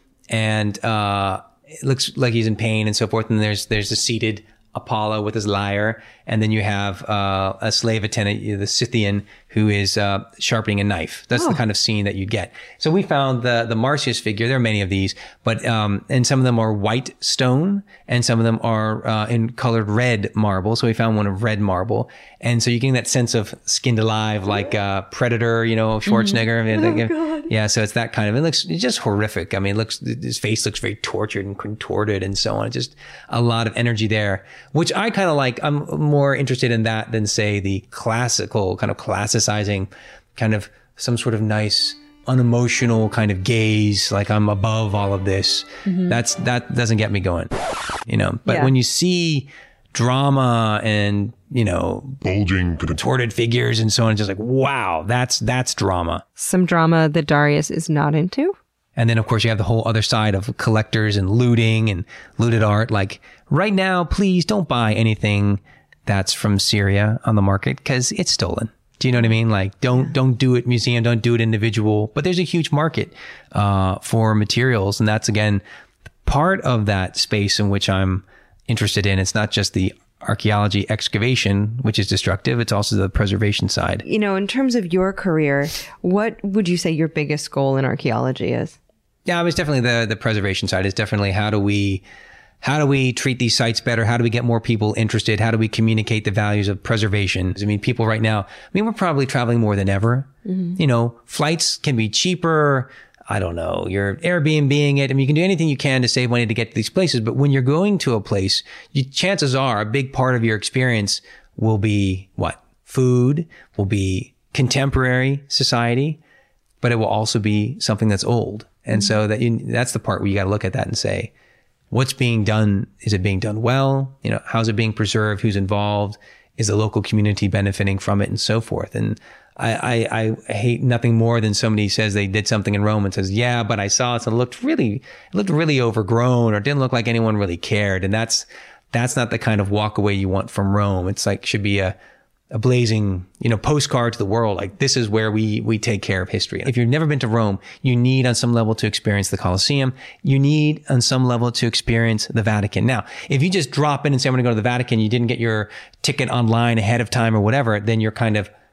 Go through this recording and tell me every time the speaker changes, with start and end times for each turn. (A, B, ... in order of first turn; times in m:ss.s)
0:00.3-0:47.5 A
0:26.1-0:27.5 B
0:45.9-0:46.2 B
0:48.1-0:56.2 A
0:48.5-0:48.7 B
0:56.4-0:58.6 B
0:59.0-1:15.6 A
1:16.3-1:24.0 A
1:24.0-1:28.8 B
1:29.3-1:32.0 A
1:32.6-1:56.2 A
1:40.5-1:40.8 B
1:56.8-2:01.3 A
2:01.9-2:22.0 A
2:22.5-2:38.5 A